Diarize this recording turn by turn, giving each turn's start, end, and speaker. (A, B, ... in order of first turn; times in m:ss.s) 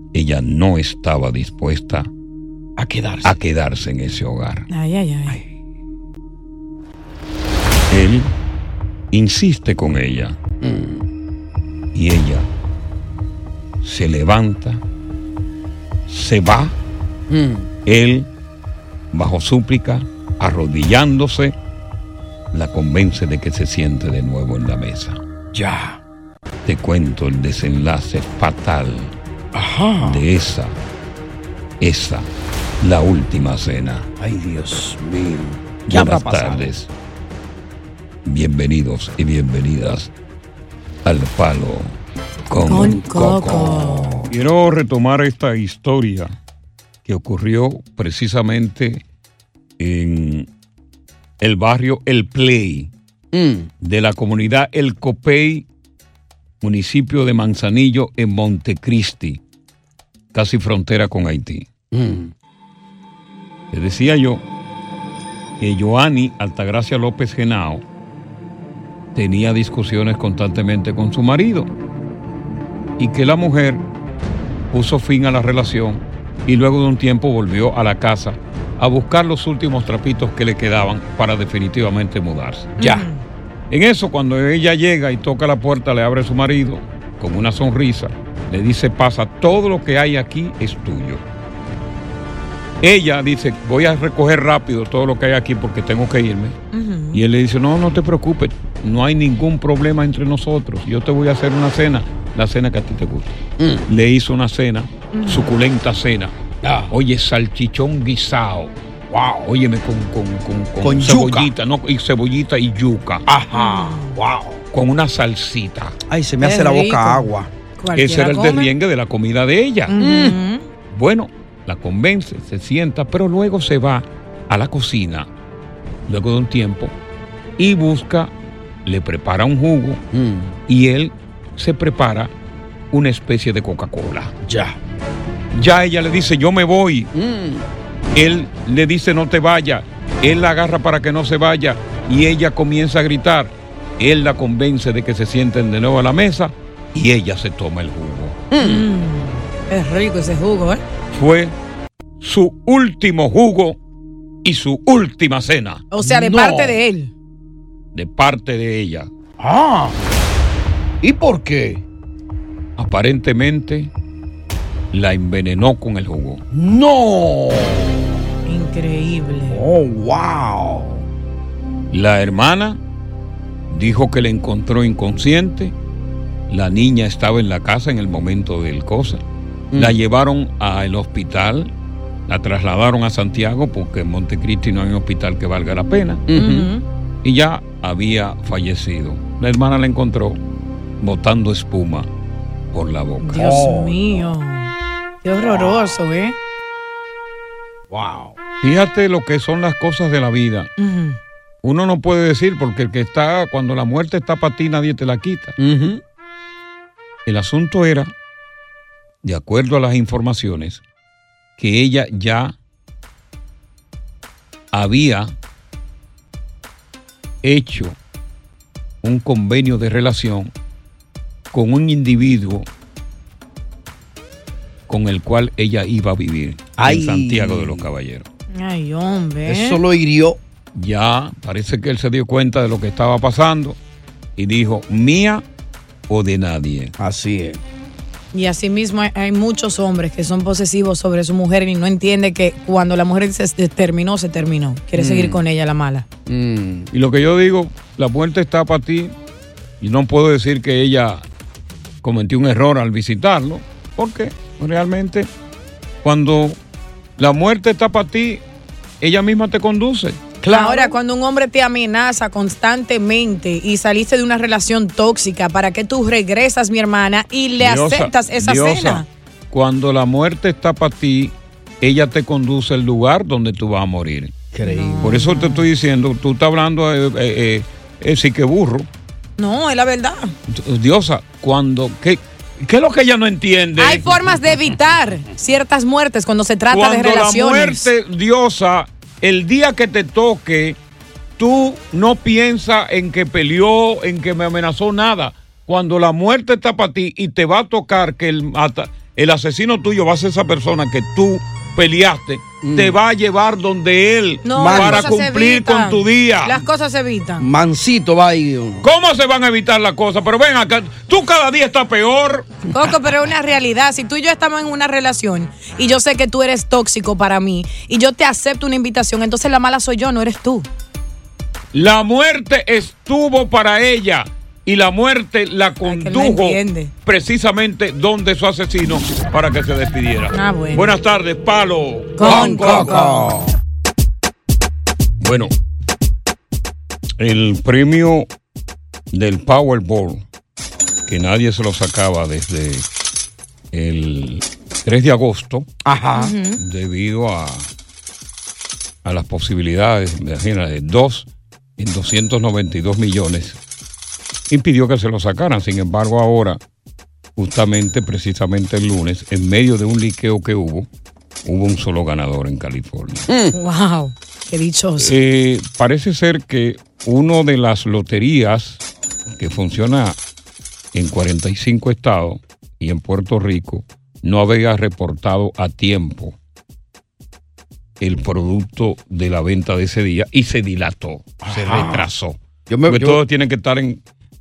0:00.1-0:02.1 A
0:02.8-0:03.4 B
0:03.2-0:04.6 A
0:04.7-0:05.4 C
0:07.9-0:08.3 A
0:09.1-0:10.4 A
0:10.6-0:11.0 B
0:11.9-0:12.5 A
0:13.8-0:14.8 A
0:16.1-0:16.7 A
0:17.3-0:17.7 B
0:17.8-0:18.3 A
0:19.1-0:21.5 A
0:22.5-0:25.2 A
0:25.5-0:26.0 B
0:26.6-0:29.1 A
0:29.5-0:30.2 B
0:30.0-0:30.8 A
0:31.8-0:32.3 A
0:32.8-0:34.1 A
0:34.2-0:36.7 B
0:35.9-0:36.9 A
0:38.2-0:40.1 A
0:41.0-0:41.9 A
0:42.5-0:46.3 A
0:42.7-0:44.1 C
0:42.7-0:44.3 B
0:47.0-0:49.0 A
0:49.8-0:50.5 A
0:51.4-0:52.9 A
0:53.3-0:53.7 B
0:53.8-0:55.7 A
0:56.6-0:59.4 A
1:00.3-1:01.7 A
1:01.9-1:02.3 B
1:03.7-1:04.4 A
1:05.6-1:07.8 A
1:09.1-1:11.7 A
1:13.0-1:13.8 A
1:14.7-1:22.7 A
1:22.8-1:23.1 B
1:22.8-1:23.2 C
1:23.7-1:31.2 A
1:32.8-1:36.6 A
1:36.7-1:37.2 C
1:37.1-1:46.3 A
1:43.6-1:43.9 B
1:45.1-1:45.5 C
1:46.6-1:46.9 B
1:46.9-1:48.7 A
1:49.1-1:49.4 B
1:49.4-1:53.2 A
1:50.8-1:51.5 B
1:53.3-1:54.6 B
1:53.5-1:54.1 C
1:54.7-1:56.0 A
1:56.1-1:57.5 B
1:56.4-1:58.7 C
1:58.0-1:59.9 A
1:59.9-2:00.6 C
2:00.0-2:00.4 B
2:00.9-2:05.3 A
2:06.1-2:06.9 A
2:07.6-2:08.3 A
2:08.8-2:10.0 A
2:10.1-2:10.6 B
2:10.7-2:12.3 A
2:12.9-2:14.3 A
2:14.4-2:14.8 B
2:15.5-2:17.1 A
2:17.1-2:17.7 B
2:18.1-2:28.4 A
2:28.5-2:28.9 B
2:28.6-2:30.8 C
2:31.1-2:31.5 A
2:32.2-2:33.8 A
2:34.4-2:35.8 A
2:35.9-2:37.1 C
2:36.0-2:36.8 B
2:37.9-2:39.1 A
2:39.4-2:40.0 B
2:41.0-2:41.8 B
2:42.8-2:43.9 A
2:44.9-2:46.4 A
2:46.5-2:48.1 B
2:48.4-2:49.6 C
2:49.5-2:51.0 B
2:51.9-2:52.8 A
2:53.7-2:55.7 A
2:56.5-2:59.2 A
2:59.7-3:00.0 B
2:59.8-3:01.7 A
3:02.3-3:06.2 A
3:06.3-3:06.7 B
3:06.3-3:06.8 C
3:07.2-3:10.4 A
3:11.0-3:12.1 A
3:12.7-3:13.4 A
3:13.2-3:14.7 C
3:13.3-3:14.0 B
3:15.2-3:16.4 C
3:15.4-3:16.0 B
3:17.9-3:18.3 B
3:18.6-3:20.7 A
3:20.8-3:21.2 C
3:21.6-3:25.5 A
3:25.6-3:26.0 B
3:27.2-3:28.1 A
3:29.2-3:30.8 A
3:31.6-3:32.6 A
3:34.7-3:35.3 A
3:37.4-3:38.0 A
3:39.0-3:40.5 A
3:41.5-3:42.6 A
3:44.9-3:48.2 A
3:46.8-3:47.9 B
3:48.5-3:49.8 C
3:49.4-3:50.4 B
3:50.7-3:53.8 A
3:54.4-3:55.4 A
3:56.1-3:56.9 A
3:57.0-3:57.6 B
3:58.3-4:06.0 C
4:05.0-4:05.4 B
4:06.3-4:06.9 B
4:06.9-4:09.1 A
4:09.8-4:11.2 A
4:12.0-4:15.3 A
4:16.0-4:16.6 A
4:17.2-4:18.4 A
4:19.0-4:20.2 A
4:20.4-4:21.0 B
4:20.5-4:29.0 C
4:27.6-4:34.3 A
4:34.5-4:35.2 B
4:34.6-4:35.6 C
4:35.0-4:38.9 A
4:39.4-4:40.3 C
4:40.5-4:44.1 A
4:43.8-4:47.9 C
4:46.7-4:50.8 A
4:51.4-5:06.6 A
5:02.6-5:03.0 B
5:04.4-5:07.5 C
5:04.5-5:05.1 B
5:07.4-5:08.8 B
5:08.8-5:12.5 A
5:12.7-5:20.7 C
5:21.7-5:33.0 A
5:25.8-5:26.9 C
5:30.3-5:30.9 C
5:32.2-5:33.3 C
5:32.2-5:33.5 B
5:35.2-5:35.5 A
5:37.2-5:38.3 A
5:39.1-5:40.2 A
5:41.1-5:42.8 A
5:43.7-5:45.7 A
5:45.8-5:46.3 B
5:46.2-5:46.6 C
5:46.6-5:47.7 A
5:49.0-5:53.6 A
5:54.5-5:56.6 A
5:57.4-6:00.9 A
6:01.4-6:03.2 A
6:03.3-6:03.5 B
6:03.5-6:05.1 C
6:05.0-6:08.8 A
6:09.4-6:10.2 A
6:10.9-6:16.4 A
6:18.0-6:24.0 A
6:21.4-6:22.1 B
6:22.7-6:23.2 B